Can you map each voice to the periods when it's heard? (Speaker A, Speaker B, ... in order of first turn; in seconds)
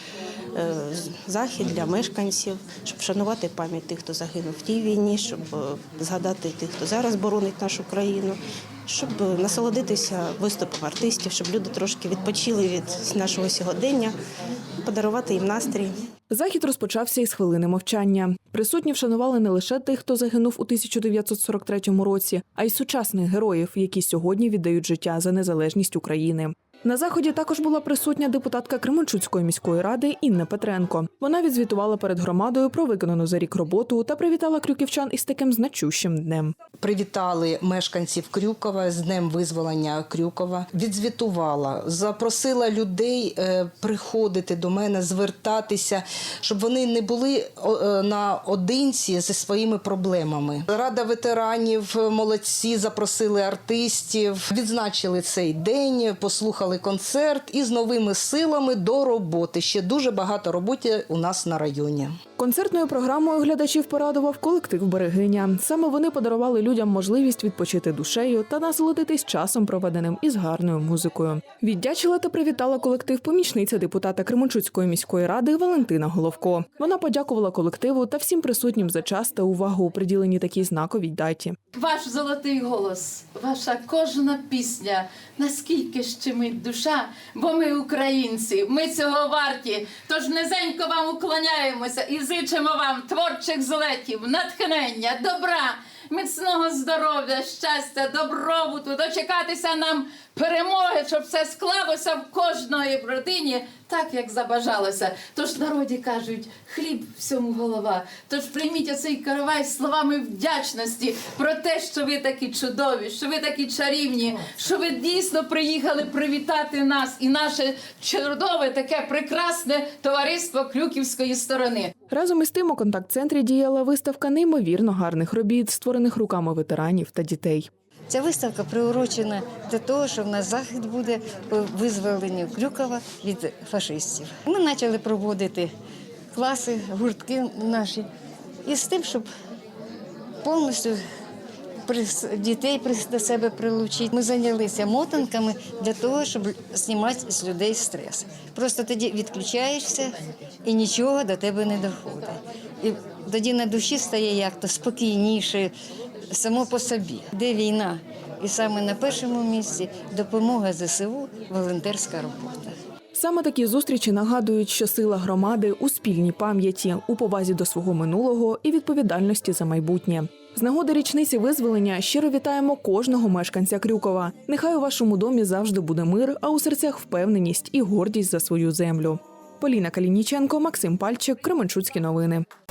Speaker A: 0.5-14.2, 14.8-15.9
Speaker B: 16.3-36.5, 62.4-81.5, 122.1-127.7, 163.1-182.4
Speaker C: 36.8-62.1
Speaker D: 81.7-121.9
Speaker E: 128.1-135.7, 136.3-138.1, 138.6-139.3, 140.4-141.0, 141.8-150.1, 150.6-155.7, 156.3-162.7